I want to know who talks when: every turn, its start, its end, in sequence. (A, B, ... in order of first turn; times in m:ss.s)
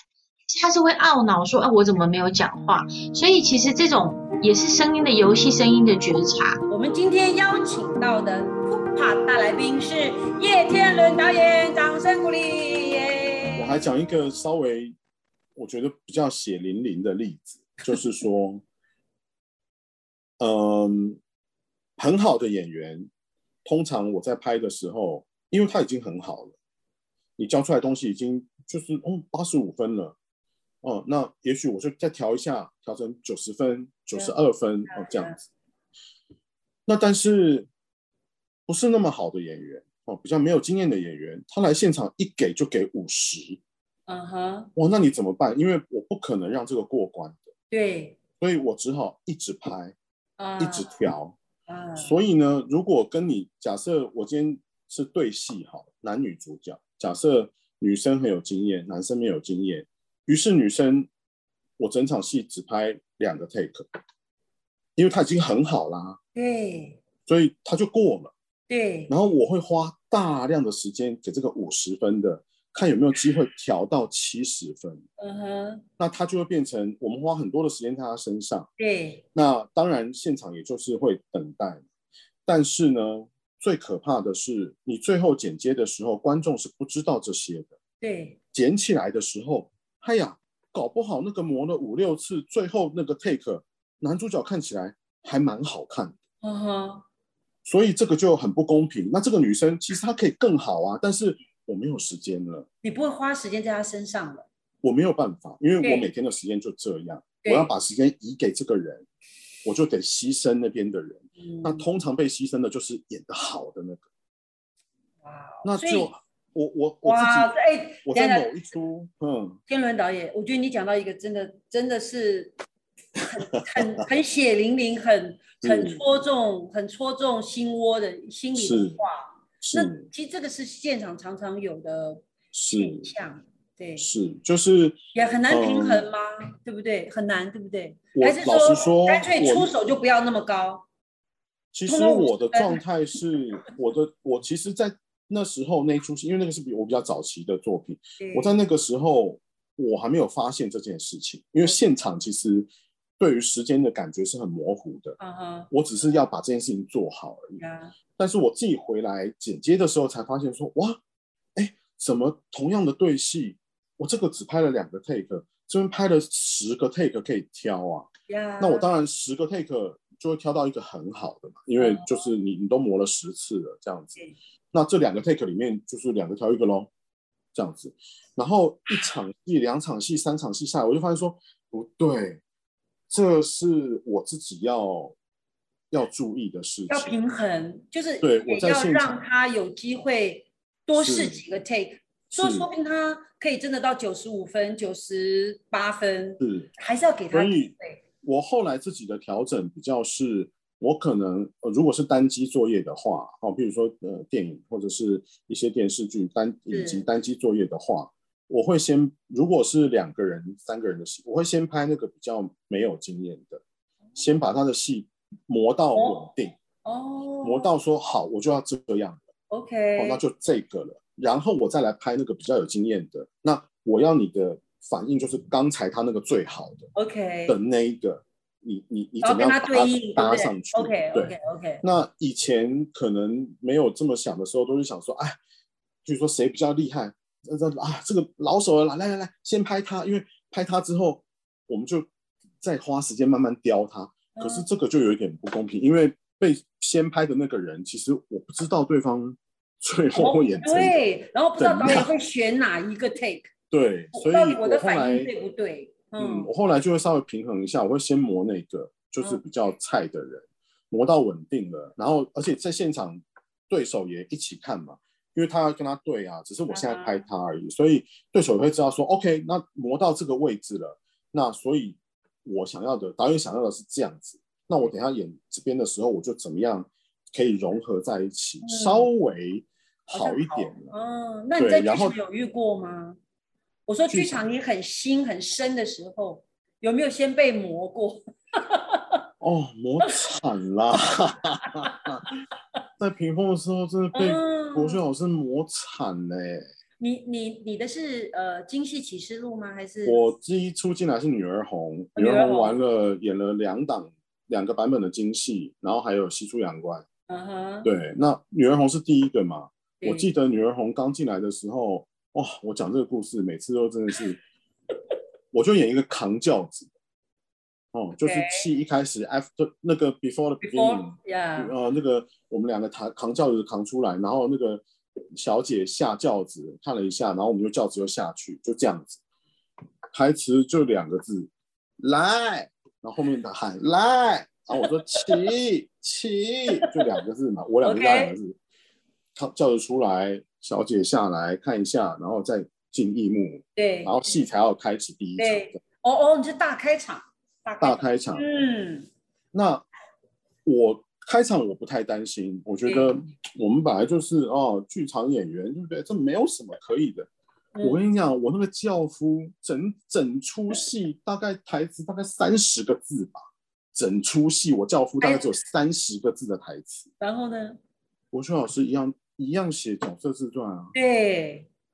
0:00.5-0:06.6 A
0:06.7-0:13.6 B
0:13.5-0:14.9 C
0:15.6-0:18.6 C
0:20.4-0:21.2 C
0:22.0-0:23.1 C
0:23.6-0:26.5 C
0:27.4-0:30.2 C
0:30.8-0:35.4 C
0:34.9-0:35.4 B
0:36.9-0:37.7 C
0:38.7-0:43.6 C
0:44.1-0:44.7 B
0:44.8-0:47.5 C
0:47.7-0:48.2 B
0:48.4-0:49.9 C
0:50.4-0:51.0 B
0:50.6-0:51.4 C
0:51.7-0:52.2 B
0:52.0-1:01.1 C
1:01.8-1:03.9 C
1:05.0-1:06.2 C
1:06.3-1:07.0 B
1:07.3-1:08.3 C
1:08.7-1:09.1 B
1:09.1-1:15.0 C
1:15.2-1:15.8 B
1:16.0-1:18.7 C
1:18.8-1:19.2 B
1:19.3-1:21.8 C
1:22.4-1:27.7 C
1:28.0-1:28.4 B
1:28.5-1:36.1 C
1:36.4-1:37.0 B
1:37.6-1:42.7 C
1:42.8-1:44.4 B
1:44.8-1:49.0 C
1:45.8-1:46.1 B
1:47.4-1:47.7 B
1:49.6-1:54.0 C
1:51.4-1:51.8 B
1:55.2-1:56.1 B
1:55.6-1:59.6 C
1:57.0-1:58.5 B
1:59.7-2:02.5 B
2:03.2-2:14.0 B
2:03.8-2:04.0 C
2:05.6-2:06.0 C
2:08.5-2:09.0 C
2:09.6-2:10.0 C
2:12.5-2:13.1 C
2:14.0-2:16.1 C
2:15.1-2:20.8 B
2:18.1-2:19.7 C
2:21.7-2:35.2 C
2:21.9-2:22.8 B
2:28.2-2:28.5 B
2:35.2-2:35.7 B
2:35.7-2:37.6 C
2:37.6-2:37.9 B
2:38.2-2:41.0 C
2:41.6-2:48.1 C
2:48.3-2:48.9 B
2:48.6-2:54.2 C
2:51.8-2:52.3 B
2:54.7-2:56.9 C
2:57.5-3:02.4 C
3:03.1-3:05.2 C
3:05.9-3:07.1 C
3:06.9-3:18.0 B
3:08.2-3:09.1 C
3:11.0-3:11.4 C
3:12.3-3:12.7 C
3:16.4-3:16.7 C
3:17.3-3:33.6 C
3:26.7-3:27.0 B
3:34.2-3:36.6 C
3:35.9-3:36.2 B
3:36.8-3:37.7 B
3:37.4-3:39.3 C
3:39.5-3:40.2 B
3:40.0-3:46.9 C
3:46.9-3:47.6 B
3:47.5-3:55.4 C
3:49.2-3:51.8 B
3:56.0-4:02.1 C
4:02.6-4:11.0 C
4:04.3-4:04.6 B
4:10.2-4:13.5 B
4:11.6-4:12.1 C
4:13.7-4:15.3 C
4:14.1-4:16.5 B
4:16.2-4:40.9 C
4:26.7-4:27.2 B
4:38.6-4:39.1 B
4:40.1-4:43.2 B
4:41.6-4:42.2 C
4:43.9-4:49.2 B
4:44.1-4:44.4 C
4:49.4-4:52.2 C
4:53.0-4:56.7 C
4:54.1-4:55.0 B
4:57.0-5:00.3 B
5:00.0-5:07.0 C
5:02.2-5:02.7 B
5:07.3-5:07.9 B
5:07.8-5:14.4 C
5:10.0-5:10.3 B
5:15.5-5:16.9 C
5:17.9-5:29.2 C
5:18.2-5:18.6 B
5:20.6-5:21.7 B
5:30.1-5:38.6 C
5:37.8-5:38.3 B
5:39.4-5:45.8 C
5:43.8-5:44.1 B
5:45.4-5:49.1 B
5:47.8-5:48.4 C
5:49.5-5:49.8 C
5:50.6-5:57.3 C
5:52.8-5:53.1 B
5:57.7-5:58.1 B
5:57.8-6:07.1 C
6:05.2-6:05.5 B
6:07.2-6:07.8 B
6:08.3-6:10.9 C
6:10.9-6:11.7 B